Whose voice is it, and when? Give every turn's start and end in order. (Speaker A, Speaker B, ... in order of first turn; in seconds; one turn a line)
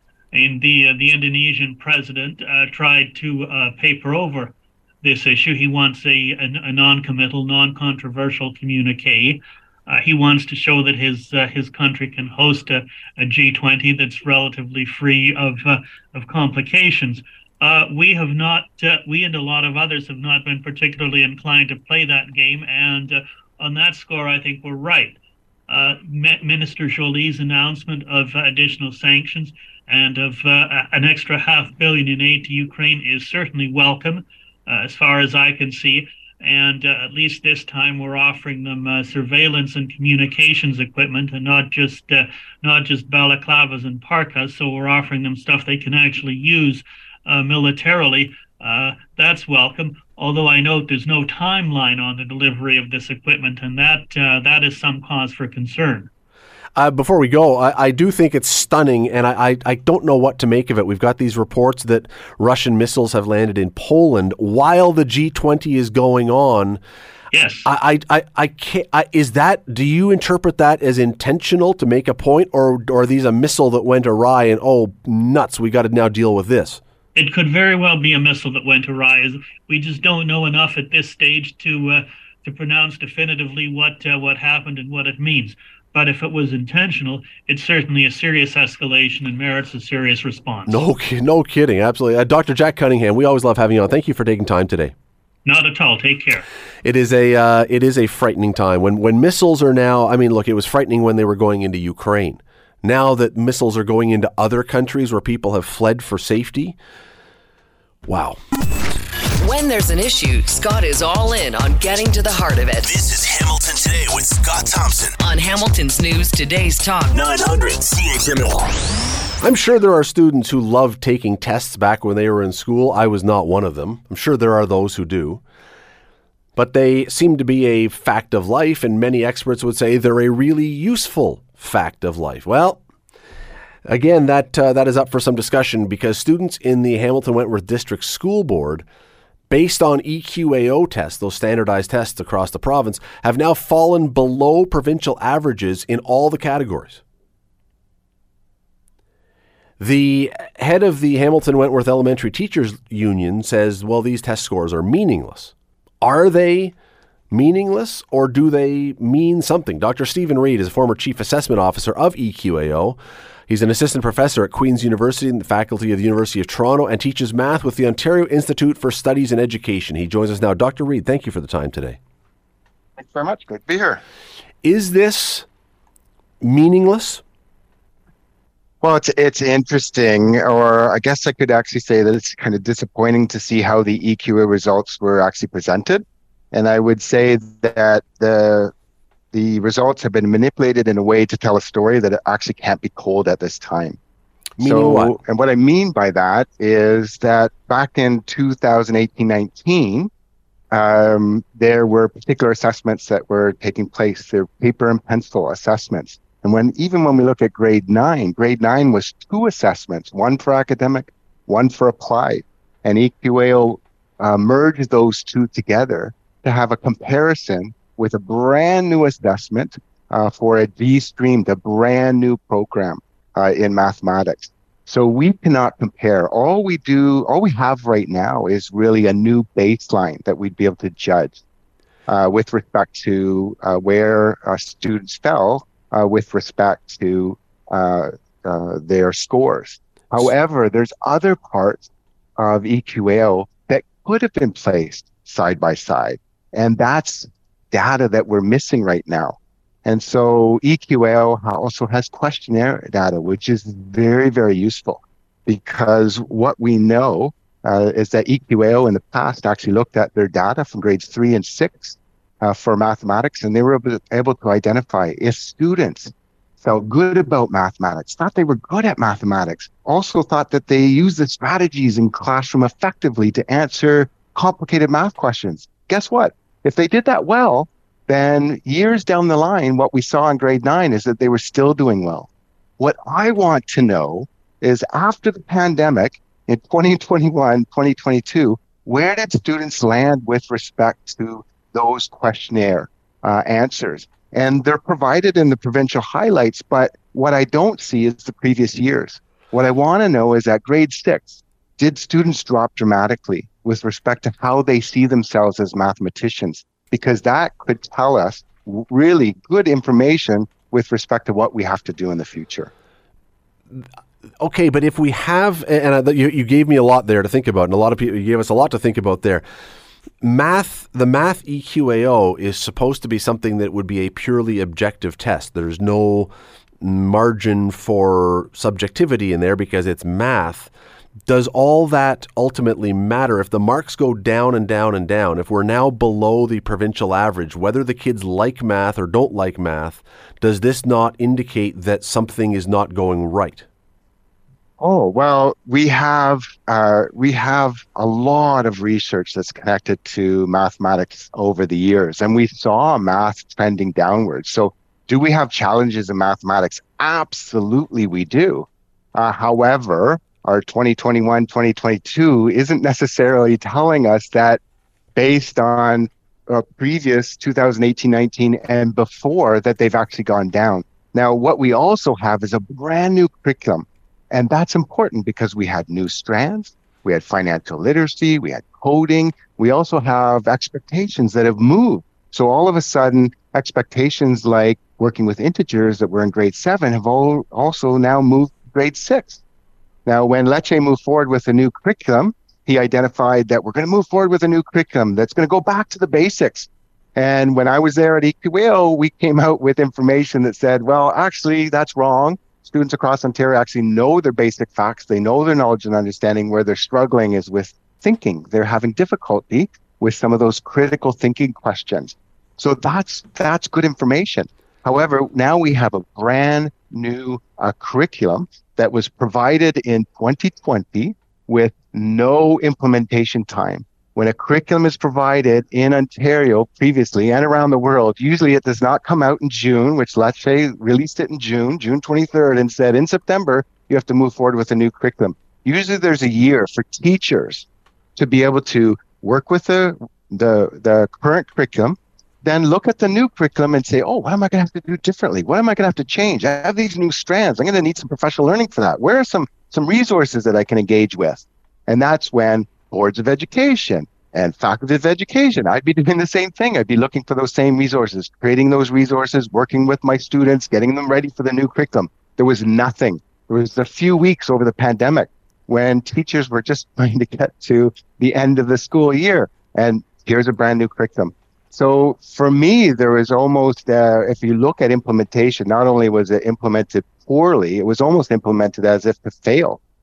Speaker A: 0.3-25.2
Speaker A: 25.7-56.1
Speaker B: 56.8-66.8
Speaker A: 67.3-67.7
Speaker B: 67.6-76.8
Speaker A: 77.2-90.8
Speaker B: 90.7-94.9
Speaker A: 95.5-96.4
Speaker B: 96.8-106.8
Speaker B: 108.0-108.4
Speaker C: 109.4-112.9
Speaker D: 112.8-115.2
Speaker C: 115.2-117.2
Speaker D: 117.1-118.7
Speaker B: 119.4-125.4
Speaker B: 126.5-132.8
Speaker B: 133.8-138.8
Speaker B: 139.5-147.0
Speaker B: 149.8-156.7
Speaker B: 157.3-172.0
Speaker E: 173.0-174.0
Speaker B: 174.6-175.4
Speaker B: 176.4-177.2
Speaker E: 178.8-188.7
Speaker E: 189.3-194.0
Speaker B: 194.6-195.2
Speaker E: 194.6-200.1
Speaker E: 200.7-231.4
Speaker E: 232.1-312.7
Speaker B: 314.4-319.4
Speaker B: 320.2-330.7
Speaker B: 331.3-343.6
Speaker E: 344.8-364.6
Speaker E: 365.1-389.4
Speaker E: 390.1-479.8